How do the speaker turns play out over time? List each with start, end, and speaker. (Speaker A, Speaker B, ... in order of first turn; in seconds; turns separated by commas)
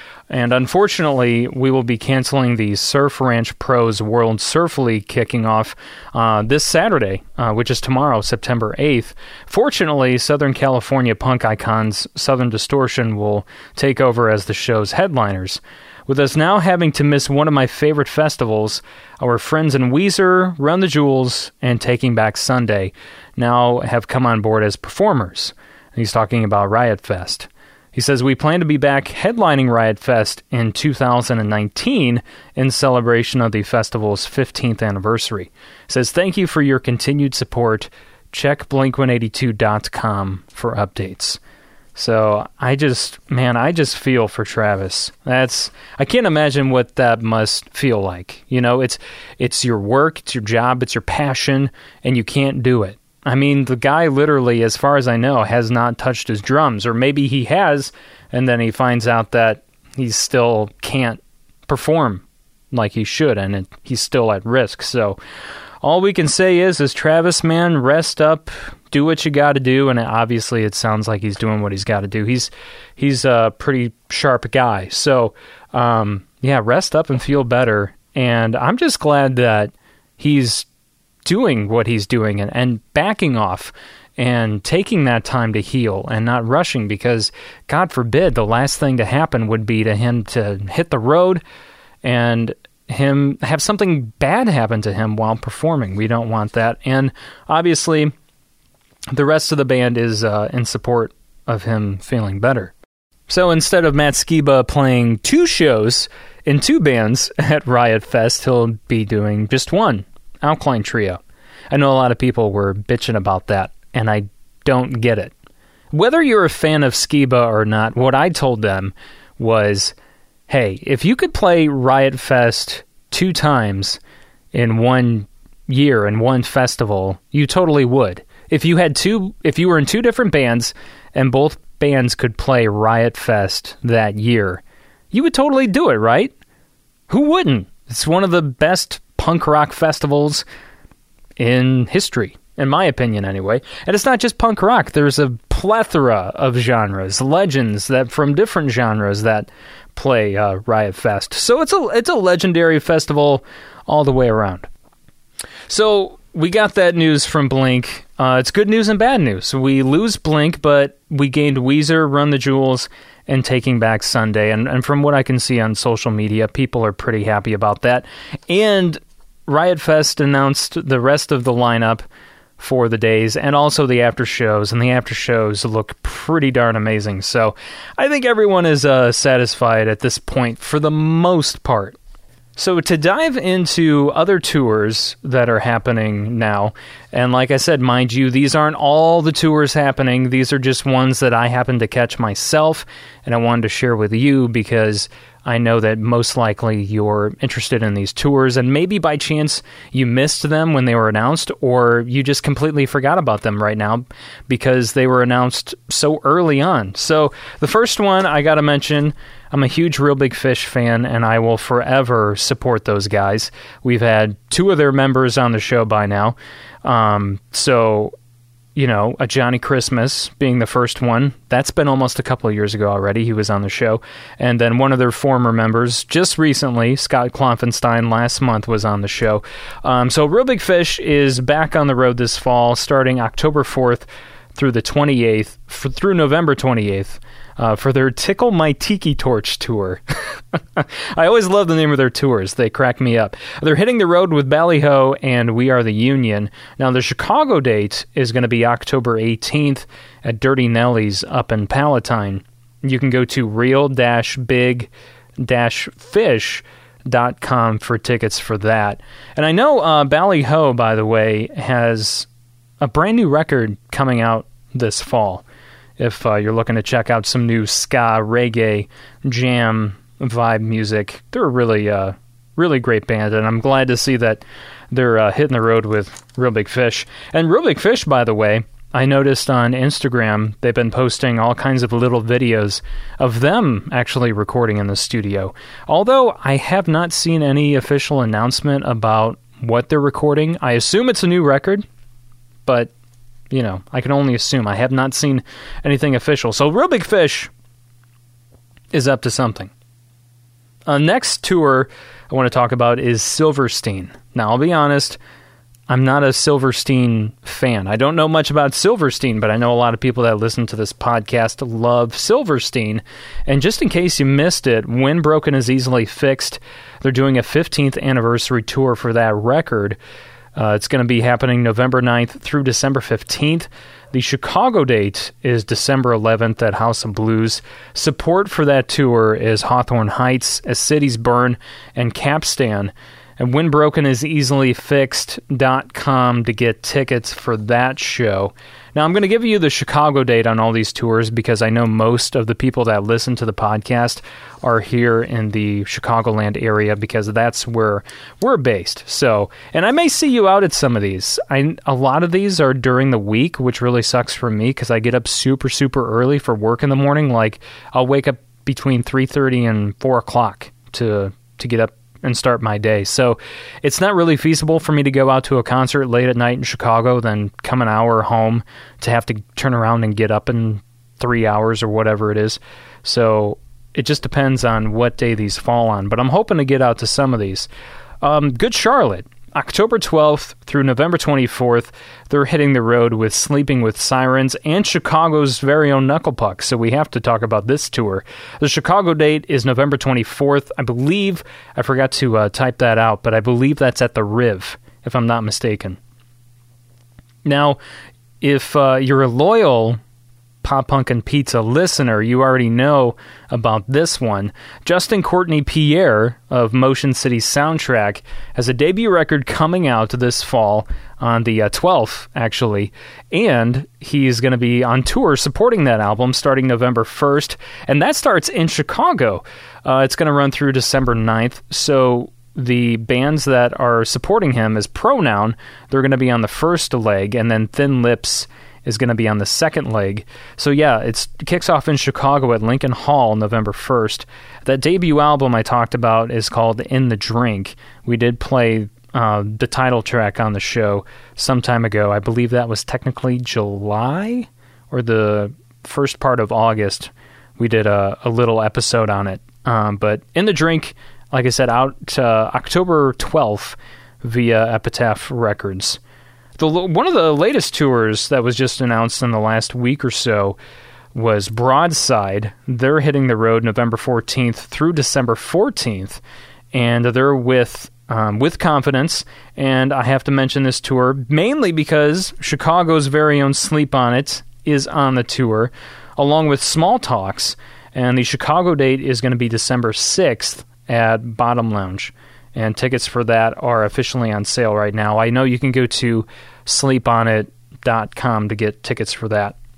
Speaker A: 0.3-41.4, Speaker A: 42.0-65.2, Speaker A: 65.8-80.7, Speaker A: 81.2-91.4, Speaker A: 92.0-98.1, Speaker A: 99.1-102.7, Speaker A: 103.3-111.2, Speaker A: 111.7-115.3, Speaker A: 115.9-120.0, Speaker A: 120.5-124.0, Speaker A: 124.5-136.3, Speaker A: 137.1-140.4, Speaker A: 141.4-154.7, Speaker A: 155.7-172.1, Speaker A: 172.6-182.0, Speaker A: 182.6-218.1, Speaker A: 218.8-240.0, Speaker A: 240.5-254.9, Speaker A: 255.4-262.3, Speaker A: 262.8-265.4, Speaker A: 266.0-291.9, Speaker A: 292.7-292.9, Speaker A: 293.5-297.5, Speaker A: 298.9-299.7, Speaker A: 300.9-305.2, Speaker A: 305.9-320.0, Speaker A: 320.6-377.7, Speaker A: 378.2-396.0, Speaker A: 397.4-397.8, Speaker A: 398.4-400.0, Speaker A: 400.6-456.0, Speaker A: 456.6-460.6, Speaker A: 461.1-466.2, Speaker A: 466.7-489.6